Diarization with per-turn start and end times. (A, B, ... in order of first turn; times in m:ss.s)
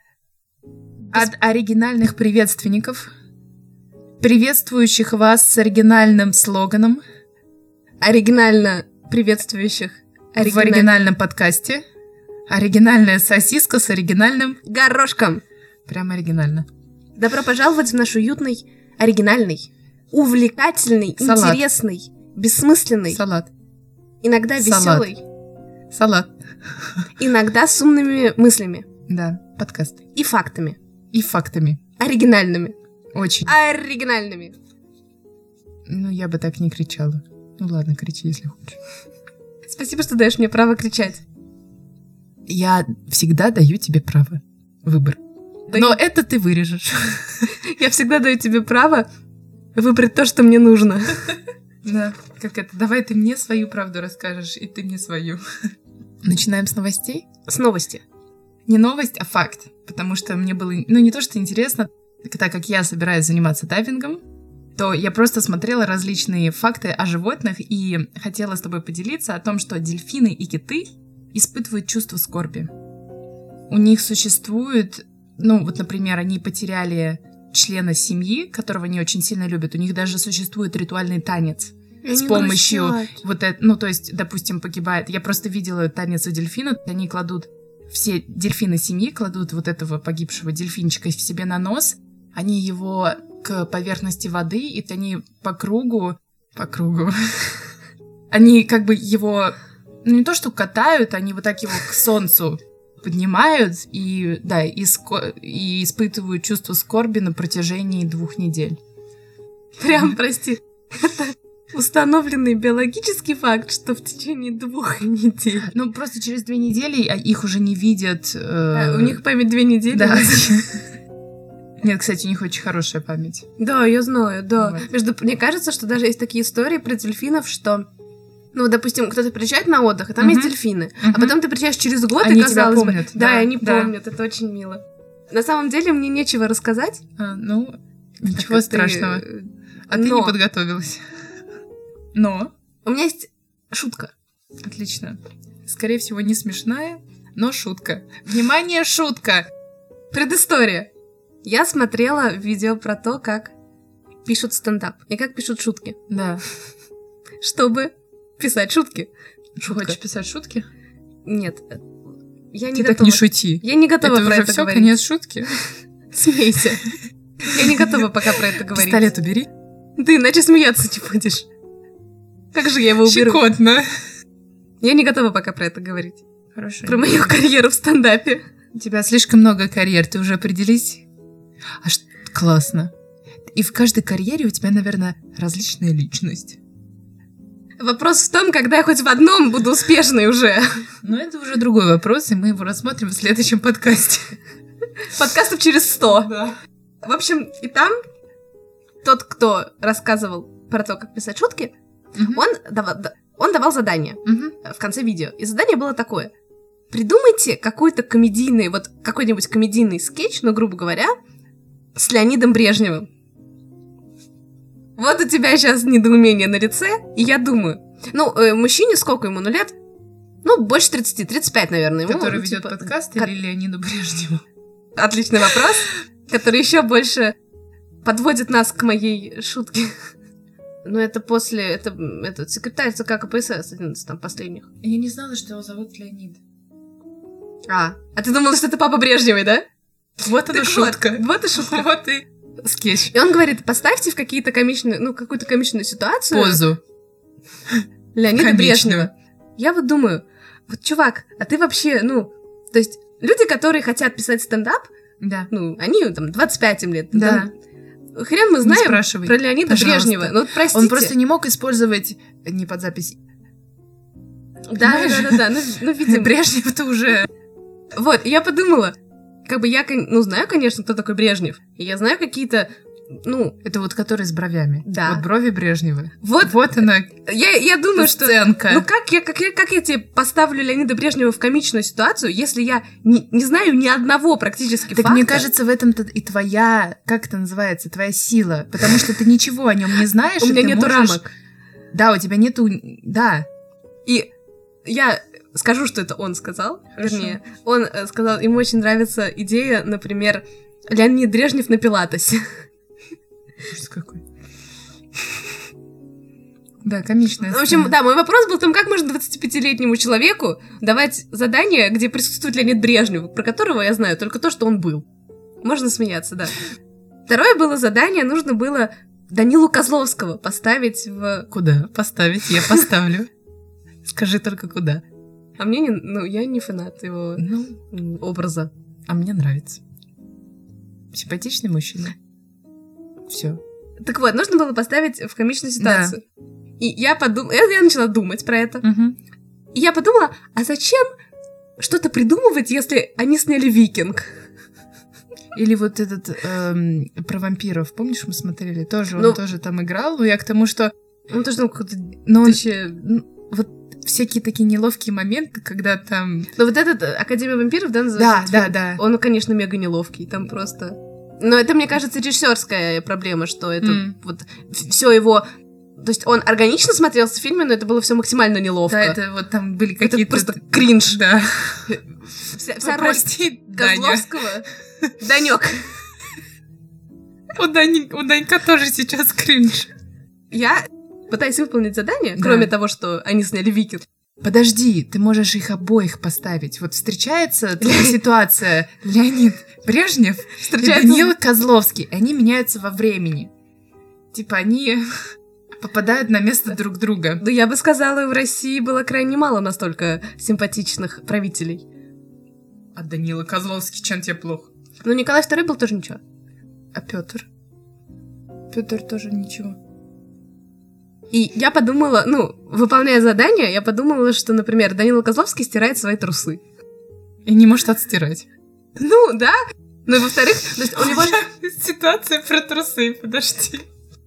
0:01.1-0:03.1 A
0:04.2-0:07.0 A
0:08.0-0:10.9 B
0:10.4-0:11.8 A
0:12.5-0:14.6 A
0:14.6-0:15.4 B
0:15.9-0:16.7 A
0:17.2-0:23.2 B
0:21.2-0:21.6 A
0:23.1-0:23.5 A
0:24.2-0:25.2 B
0:24.6-0:25.1 A
0:25.9-0:27.1 A
0:27.2-0:28.9 B
0:29.1-0:30.0 A
0:30.2-0:30.8 B
0:31.1-0:31.8 A
0:32.0-0:32.8 B
0:33.1-0:33.5 A
0:33.5-0:34.6 B
0:35.9-0:38.8 A
0:39.7-0:41.2 B
0:42.5-0:45.2 A
0:45.7-0:46.0 B
0:45.7-0:47.5 A
0:47.5-0:49.1 B
0:49.8-0:51.4 B
0:51.8-0:55.4 A
0:56.2-0:57.3 A
0:57.5-0:58.0 B
0:58.7-1:04.2 A
1:04.8-1:12.7 A
1:13.7-1:37.6 A
1:22.0-1:23.2 B
1:38.3-1:48.8 A
1:49.8-1:55.7 B
1:55.6-1:59.2 A
1:58.7-2:00.6 B
1:59.9-2:00.8 A
2:01.8-2:03.5 A
2:03.6-2:07.9 B
2:04.6-2:04.9 A
2:08.5-2:17.0 B
2:10.2-2:11.4 A
2:12.2-2:13.9 A
2:17.2-2:19.2 A
2:18.3-2:20.4 B
2:19.9-2:21.1 A
2:22.1-2:22.5 A
2:22.8-2:24.1 B
2:24.6-2:29.5 A
2:30.1-2:30.9 B
2:31.4-2:33.5 B
2:34.2-2:36.0 B
2:36.1-2:36.4 A
2:37.4-2:39.1 B
2:39.6-2:40.7 A
2:39.6-2:40.0 B
2:41.3-2:41.8 B
2:42.5-2:44.9 B
2:42.7-2:45.6 A
2:46.1-2:49.1 B
2:47.6-2:47.9 A
2:48.7-2:49.5 A
2:50.0-2:51.5 B
2:52.5-2:53.4 B
2:53.0-2:53.9 A
2:54.8-2:56.2 B
2:56.6-2:57.4 A
2:56.8-2:58.4 B
2:58.7-3:01.0 A
3:01.8-3:02.9 A
3:03.5-3:06.6 A
3:07.8-3:10.8 B
3:11.0-3:14.4 A
3:15.0-3:16.4 B
3:16.2-3:16.6 A
3:17.0-3:18.0 B
3:19.0-3:21.7 B
3:22.2-3:22.4 A
3:22.2-3:26.3 B
3:24.3-3:24.6 A
3:26.9-3:31.1 B
3:32.0-3:33.1 B
3:35.0-3:39.7 B
3:40.4-3:43.3 B
3:42.1-3:44.4 A
3:45.0-3:47.4 B
3:48.0-3:50.1 B
3:50.8-3:54.7 B
3:54.8-3:56.4 A
3:57.7-3:59.6 B
4:00.2-4:03.1 A
4:00.4-4:01.9 B
4:03.1-4:06.6 B
4:06.3-4:06.8 A
4:07.7-4:09.1 A
4:08.2-4:14.9 B
4:15.2-4:15.5 A
4:15.5-4:17.5 B
4:17.1-4:17.5 A
4:18.2-4:21.1 B
4:18.6-4:23.2 A
4:24.7-4:26.4 B
4:24.8-4:27.3 A
4:27.9-4:32.7 B
4:33.2-4:33.6 B
4:33.6-4:37.1 A
4:34.8-4:35.2 B
4:36.2-4:36.6 B
4:37.2-4:45.5 B
4:38.0-4:38.9 A
4:44.9-4:51.2 A
4:50.4-4:51.3 B
4:51.9-4:53.5 A
4:54.8-5:02.5 B
4:57.0-4:57.4 A
5:03.7-5:04.2 A
5:06.8-5:07.9 A
5:07.5-5:15.1 B
5:15.6-5:16.6 B
5:17.3-5:21.5 B
5:21.5-5:23.3 A
5:24.1-5:25.0 A
5:25.6-5:28.7 B
5:27.4-5:27.8 A
5:29.1-5:29.8 A
5:31.1-5:32.2 A
5:33.3-5:33.6 A
5:34.0-5:36.2 B
5:35.8-5:36.2 A
5:36.8-5:38.8 B
5:38.8-5:39.2 A
5:39.7-5:41.1 B
5:41.8-5:44.4 B
5:45.6-5:50.9 A
5:51.3-5:53.0 B
5:52.3-5:56.5 A
5:56.6-6:05.5 B
5:58.2-5:59.0 A
6:03.8-6:04.2 A
6:06.0-6:09.2 B
6:08.9-6:11.9 A
6:10.0-6:11.2 B
6:11.9-6:14.7 B
6:12.8-6:14.3 A
6:15.2-6:15.9 B
6:17.5-6:19.9 A
6:20.5-6:24.0 B
6:22.4-6:22.7 A
6:24.4-6:33.5 A
6:27.8-6:28.2 B
6:30.6-6:31.3 B
6:34.3-6:35.1 A
6:35.8-6:37.4 A
6:37.4-6:41.8 B
6:42.9-6:44.7 A
6:45.0-6:46.2 B
6:46.9-6:47.5 A
6:48.7-6:49.8 A
6:51.3-6:56.6 B
6:57.5-6:58.5 A
6:59.0-7:01.4 B
7:01.0-7:03.9 A